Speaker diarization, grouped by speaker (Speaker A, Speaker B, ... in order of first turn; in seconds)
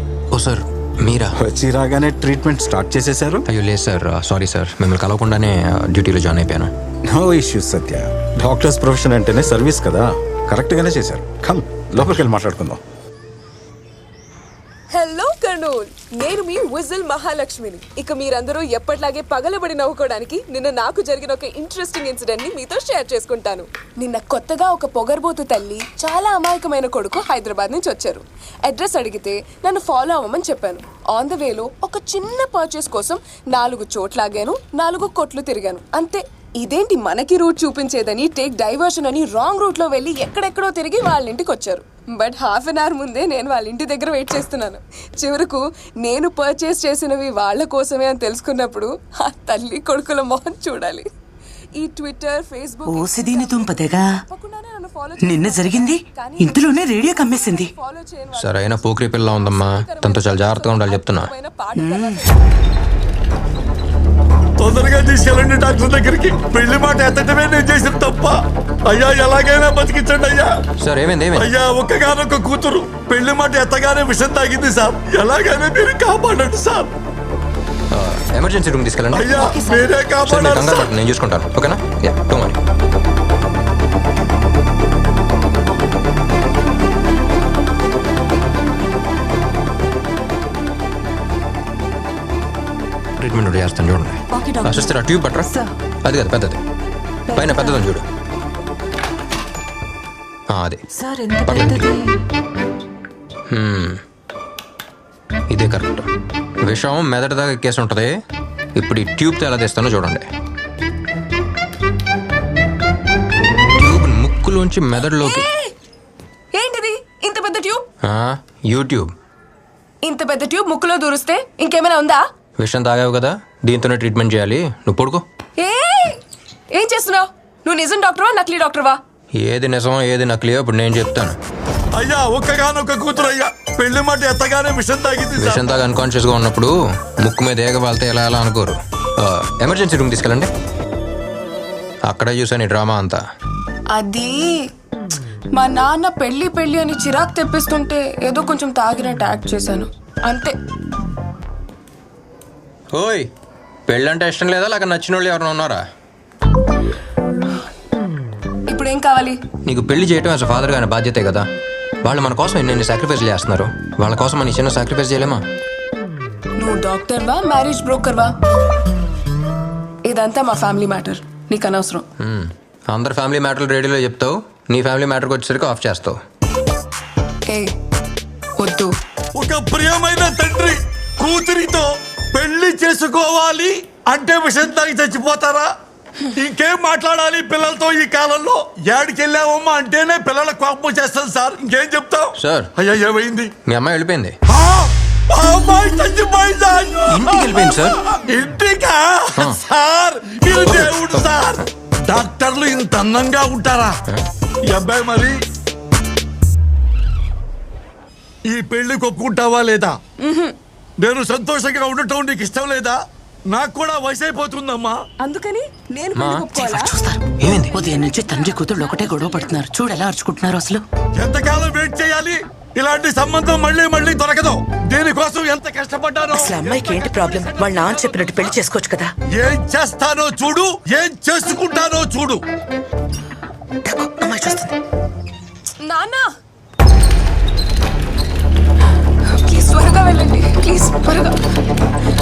Speaker A: 0.3-1.4, 3.5-6.7, 58.4-61.3, 70.8-71.5, 77.9-79.4, 80.0-82.6, 93.2-95.5, 96.0-96.6, 97.3-98.0, 100.5-100.8, 101.5-101.9, 103.5-104.0, 105.5-106.1, 106.6-108.1, 108.7-110.3, 113.8-115.5, 118.0-119.1, 122.6-125.2, 129.4-131.3, 135.4-140.5, 142.1-143.2, 152.9-153.3, 153.9-155.8, 159.7-161.4, 162.0-165.4, 172.2-176.2, 192.4-192.7, 193.7-194.3, 197.1-198.0, 200.7-201.2, 216.2-216.5, 217.4-217.8
Speaker B: 1.4-3.5, 7.1-12.8
Speaker C: 14.9-51.0, 51.8-53.7, 54.3-62.3, 115.2-115.7, 116.5-117.8, 120.0-122.2, 125.6-126.2, 126.7-129.0, 143.9-144.7, 145.5-150.5, 158.7-159.4, 166.6-168.3, 170.0-172.1, 177.5-177.7, 178.6-178.9, 210.2-210.5, 215.2-216.9, 235.8-236.3, 239.3-241.4
Speaker D: 52.9-54.1, 55.2-57.7, 61.8-62.3, 101.0-101.3, 216.5-220.8, 226.3-229.1, 233.8-234.7
Speaker E: 64.6-70.6, 71.4-76.9, 79.1-80.9, 131.9-135.7, 179.3-185.7, 186.3-193.5, 194.5-197.6, 198.3-204.0, 204.7-205.4, 208.5-210.0, 211.0-215.0, 221.2-228.6, 229.3-232.4